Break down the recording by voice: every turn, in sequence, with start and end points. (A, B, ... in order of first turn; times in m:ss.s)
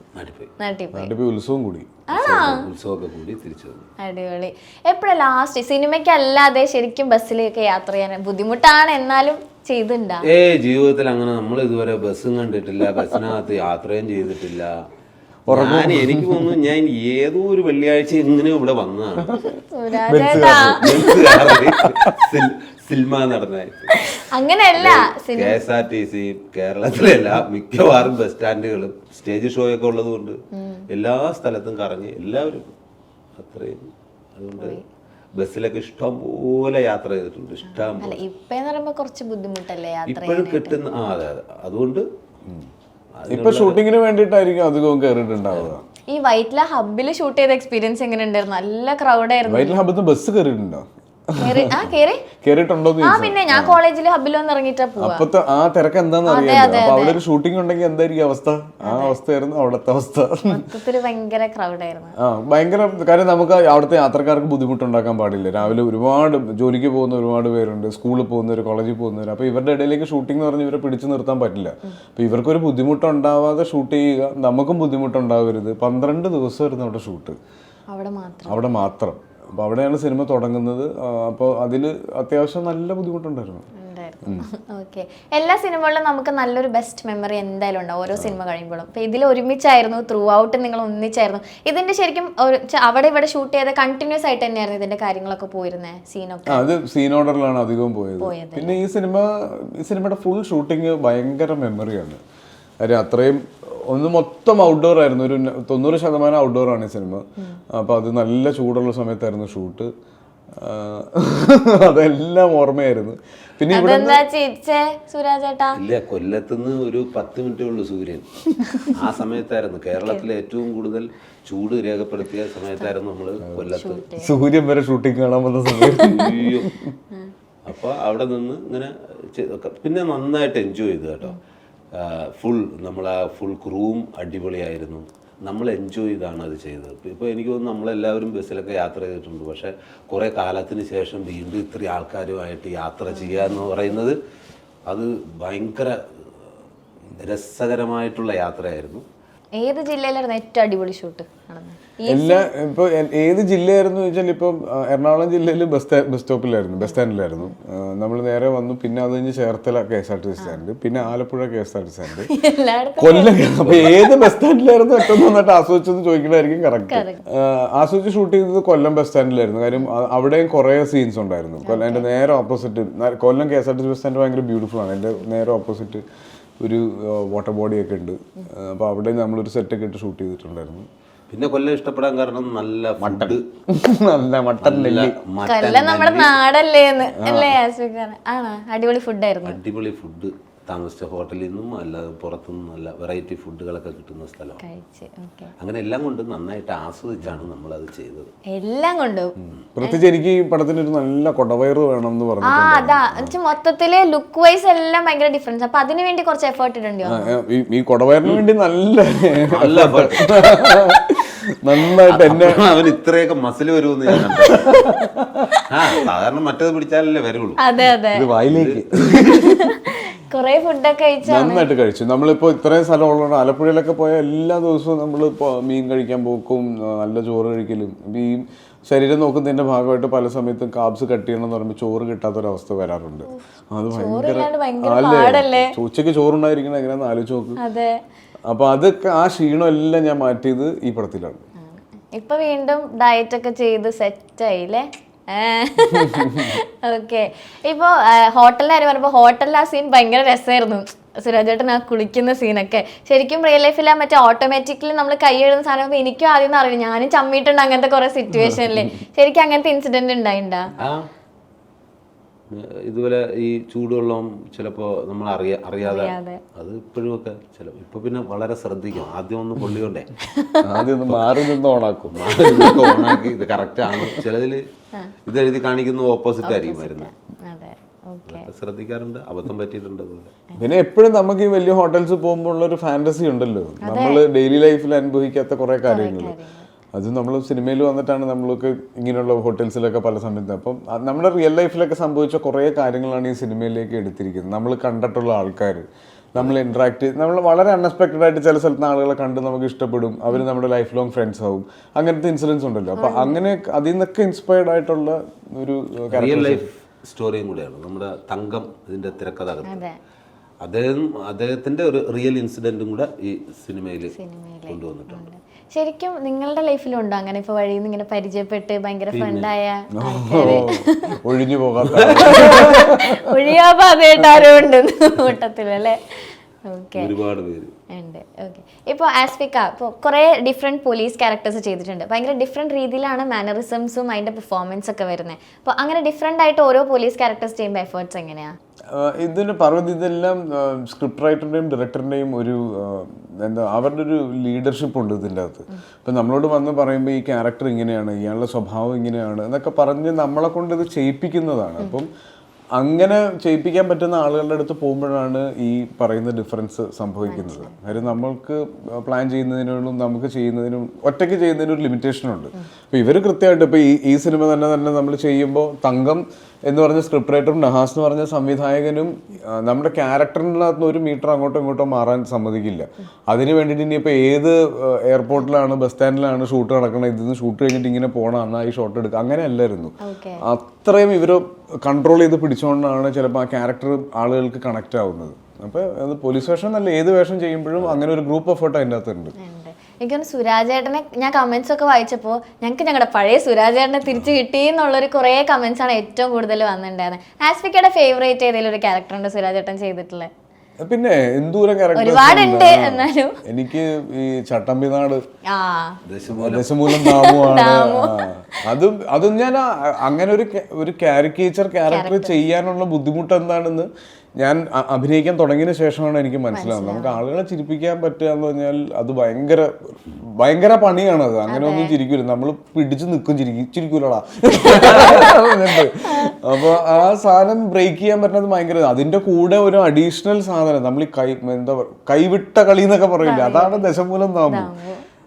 0:00.2-0:00.5 A
0:00.6-0:01.1 B
0:00.9-0:01.9 C
0:02.1-0:02.6 B
0:02.1-0:03.9 A
0:04.0-0:10.2 B
0:10.3-0:14.7 A
0:15.5-0:16.5 C
0:15.5-0:19.4 A
0:19.7-0:21.5 B
0:20.1-0:21.6 C
0:20.6-0:24.0 A
0:24.0-0:25.6 B
0:24.8-0:30.4 A
0:30.5-0:30.8 B
0:30.9-0:32.6 A
0:33.4-0:34.8 A
0:35.4-0:38.2 A
0:37.7-0:40.8 B
0:40.1-0:42.0 A
0:43.2-0:43.8 A
0:43.3-0:45.8 C
0:46.1-0:49.8 B
0:49.4-0:51.7 C
0:51.4-0:52.2 B
0:52.4-0:53.8 C
0:53.0-0:55.2 B
0:55.0-1:00.6 C
0:56.3-0:57.2 B
0:58.8-0:59.2 B
1:00.5-1:02.2 B
1:02.2-1:17.4 C
1:17.9-1:18.6 B
1:18.5-1:23.7 C
1:23.7-1:36.6 B
1:36.5-1:42.2 C
1:38.2-1:38.8 B
1:42.8-1:49.9 C
1:50.6-1:54.2 C
1:53.7-1:55.8 B
1:55.8-1:58.4 A
1:58.9-2:04.0 A
2:00.0-2:00.2 B
2:03.5-2:06.9 C
2:03.7-2:04.3 B
2:06.0-2:06.7 A
2:07.6-2:11.4 A
2:11.9-2:24.2 A
2:23.1-2:23.7 B
2:24.9-2:26.0 A
2:27.1-2:29.0 A
2:29.6-2:32.5 B
2:32.1-2:42.3 C
2:36.9-2:37.5 B
2:42.2-2:43.4 B
2:43.0-2:56.0 C
2:43.6-2:44.0 A
2:46.9-2:47.2 B
2:51.6-2:52.1 B
2:56.6-3:00.9 C
3:01.3-3:03.4 A
3:03.0-3:05.1 C
3:04.6-3:06.4 A
3:05.4-3:09.6 B
3:07.1-3:07.6 C
3:09.4-3:14.6 A
3:14.6-3:15.5 B
3:15.6-3:18.3 A
3:18.5-3:20.0 B
3:19.7-3:23.3 C
3:22.4-3:27.3 B
3:27.0-3:32.6 C
3:29.5-3:30.4 A
3:32.1-3:34.7 A
3:34.7-3:34.9 B
3:35.1-3:35.4 C
3:35.7-3:37.6 A
3:37.6-3:38.3 B
3:38.1-3:39.7 C
3:38.5-3:38.8 A
3:39.2-3:41.7 B
3:41.2-3:57.6 C
3:53.3-3:55.7 B
3:57.6-3:58.0 B
3:58.5-4:01.4 C
4:01.6-4:20.7 B
4:05.9-4:06.6 C
4:22.5-4:30.1 A
4:25.8-4:26.4 B
4:30.2-4:30.7 B
4:30.6-4:32.3 C
4:32.1-4:34.6 A
4:32.4-4:33.1 B
4:35.3-4:37.1 A
4:36.4-4:38.5 B
4:38.3-4:40.3 A
4:40.6-4:46.3 C
4:43.8-4:44.2 B
4:45.9-4:46.7 B
4:46.9-5:06.6 C
5:03.0-5:03.4 B
5:06.1-5:09.8 A
5:09.6-5:10.0 B
5:10.6-5:14.1 A
5:14.1-5:21.2 B
5:14.7-5:15.2 A
5:19.1-5:19.5 A
5:20.0-5:23.1 C
5:20.4-5:20.6 A
5:21.9-5:22.7 A
5:22.2-5:26.0 B
5:26.6-5:27.1 B
5:27.0-5:27.7 A
5:27.9-5:38.5 B
5:38.9-5:52.1 C
5:52.8-6:29.3 C
5:57.2-5:57.9 B
6:20.0-6:20.4 B
6:29.4-6:40.3 B
6:40.8-6:45.2 C
6:41.9-6:43.4 B
6:45.5-6:46.0 B
6:46.0-6:46.7 A
6:46.3-6:53.9 C
6:46.9-6:48.1 B
6:51.9-6:52.4 B
6:54.4-7:14.7 C
6:56.5-6:57.2 B
7:01.4-7:01.9 B
7:04.8-7:05.4 B
7:06.1-7:06.3 B
7:13.2-7:13.8 B
7:14.5-7:15.0 B